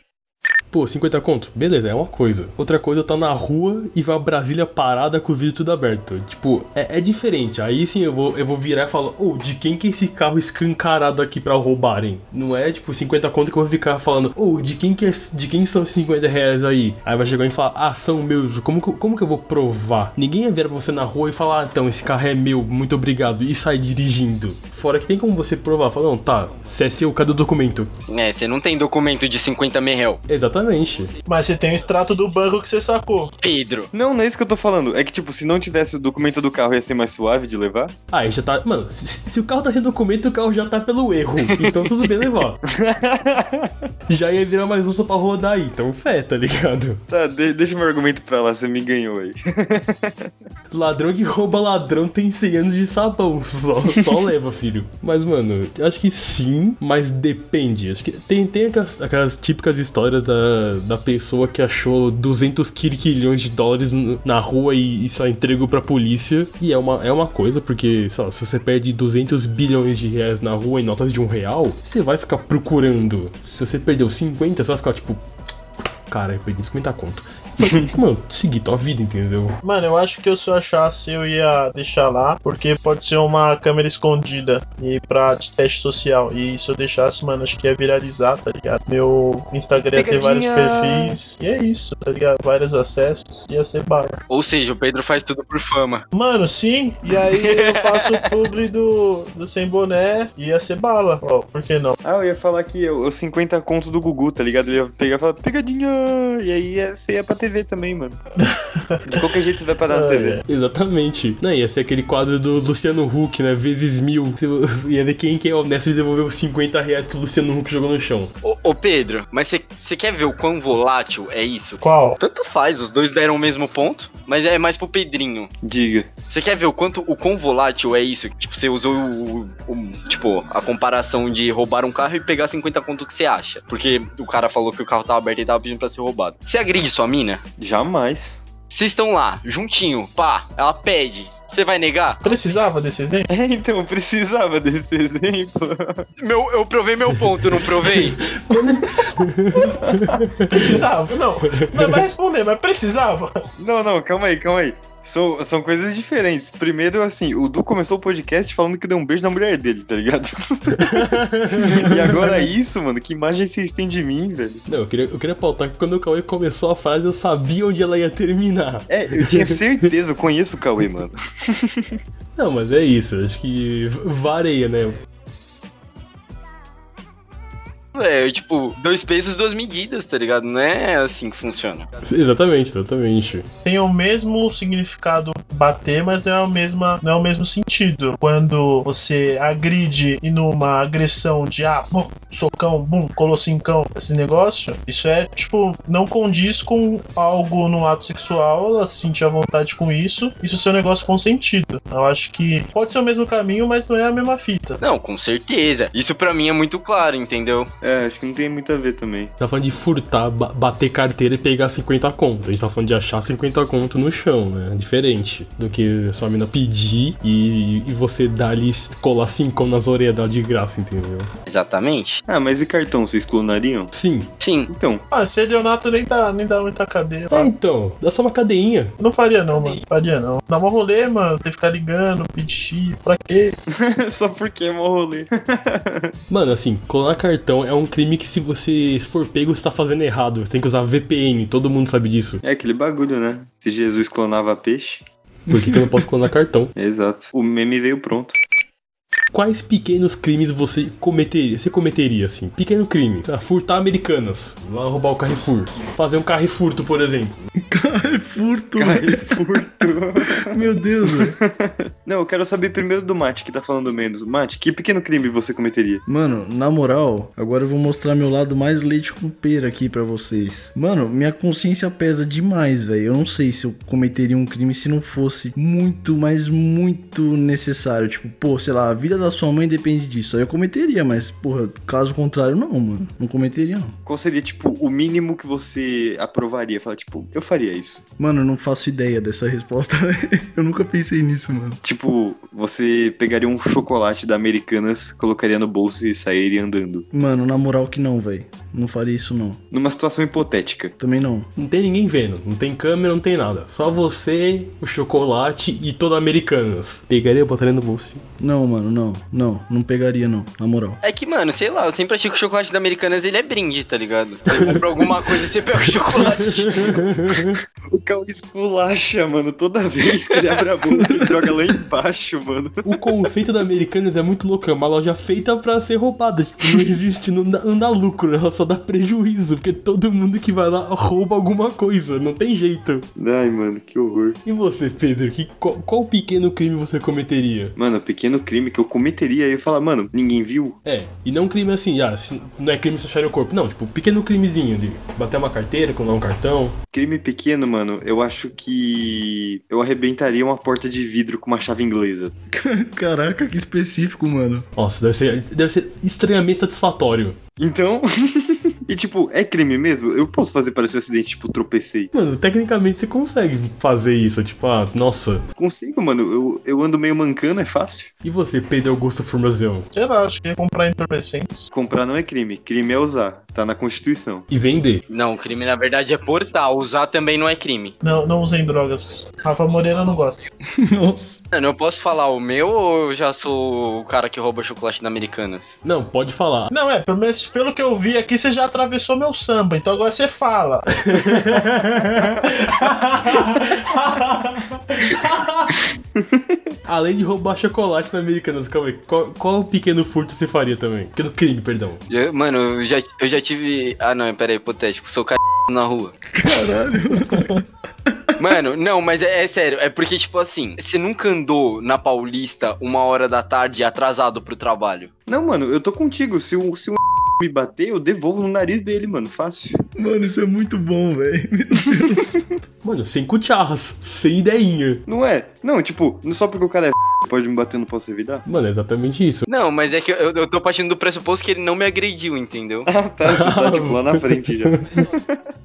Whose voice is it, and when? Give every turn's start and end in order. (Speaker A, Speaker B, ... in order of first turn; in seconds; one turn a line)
Speaker A: 0.7-27.9
Speaker B: 28.1-30.2
Speaker A: 30.3-31.1
Speaker C: 31.2-33.3
Speaker B: 33.4-33.9
Speaker D: 33.9-37.9
Speaker A: 38.1-42.6
Speaker B: 41.5-41.7
Speaker D: 42.7-43.7
Speaker A: 44.1-47.0
Speaker D: 47.1-50.3
Speaker A: 50.7-75.2
Speaker A: 76.1-79.6
Speaker C: 79.6-94.2
Speaker D: 89.9-91.2
Speaker B: 94.3-96.0
Speaker C: 96.1-102.0
Speaker B: 97.3-98.3
Speaker D: 102.0-108.2
Speaker C: 108.4-109.3
Speaker D: 109.0-110.4
Speaker C: 109.8-110.4
Speaker A: 110.5-118.3
Speaker B: 118.4-125.5
Speaker C: 121.8-122.2
Speaker D: 125.6-126.1
Speaker B: 126.3-137.4
Speaker D: 137.6-138.4
Speaker B: 138.7-142.2
Speaker C: 142.2-143.3
Speaker D: 143.3-146.1
Speaker B: 146.2-148.2
Speaker A: 148.2-150.8
Speaker D: 149.8-150.2
Speaker C: 150.5-153.3
Speaker A: 151.4-151.9
Speaker D: 153.6-164.6
Speaker A: 160.7-162.4
Speaker A: 164.7-169.6
Speaker D: 168.9-171.9
Speaker A: 172.3-175.0
Speaker B: 177.9-181.9
Speaker A: 182.0-183.4
Speaker C: 183.6-204.8
Speaker B: 204.8-207.7
Speaker D: 207.8-209.3
Speaker A: 209.4-221.3
Speaker B: 221.4-222.2
Speaker D: 222.3-223.9
Speaker A: 223.9-224.3
Speaker B: 224.4-224.7
Speaker D: 224.7-225.0
Speaker C: 225.1-227.5
Speaker A: 227.3-228.9
Speaker C: 229.0-233.6
Speaker D: 233.7-236.1
Speaker A: 236.3-242.4
Speaker D: 242.4-245.0
Speaker A: 245.5-246.7
Speaker E: 245.5-245.8
Speaker D: 246.7-248.3
Speaker A: 249.3-257.3
Speaker E: 257.6-259.7
Speaker D: 258.8-260.6
Speaker E: 260.4-261.4
Speaker D: 261.1-266.0
Speaker E: 266.1-283.9
Speaker D: 284.1-288.0
Speaker E: 288.2-291.8
Speaker D: 291.8-297.1
Speaker E: 297.1-299.6
Speaker D: 299.7-300.9
Speaker E: 301.0-301.5
Speaker A: 301.6-308.2
Speaker E: 308.4-311.0
Speaker B: 311.0-316.9
Speaker A: 316.1-317.6
Speaker D: 317.9-322.9
Speaker E: 321.0-321.4
Speaker A: 322.8-333.1
Speaker D: 333.1-334.4
Speaker A: 334.4-337.7
Speaker D: 337.8-340.8
Speaker A: 340.8-346.8
Speaker D: 346.9-352.3
Speaker E: 352.5-354.6
Speaker A: 354.8-357.4
Speaker D: 357.6-362.1
Speaker A: 362.1-365.4
Speaker D: 365.6-368.1
Speaker A: 368.2-369.9
Speaker C: 369.9-371.7
Speaker D: 371.7-374.5
Speaker A: 374.5-375.0
Speaker B: 375.1-377.9
Speaker C: 378.0-380.4
Speaker E: 380.7-381.4
Speaker B: 381.5-385.8
Speaker A: 385.8-386.7
Speaker C: 386.7-391.6
Speaker A: 391.0-395.8
Speaker D: 396.2-396.6
Speaker A: 396.9-402.0
Speaker B: 402.1-406.2
Speaker E: 406.3-408.3
Speaker B: 408.4-415.1
Speaker D: 415.3-419.8
Speaker E: 419.9-422.4
Speaker D: 422.0-422.4
Speaker A: 422.8-425.0
Speaker D: 425.1-428.4
Speaker A: 428.5-429.5
Speaker B: 429.5-432.9
Speaker D: 432.9-435.4
Speaker A: 433.2-434.8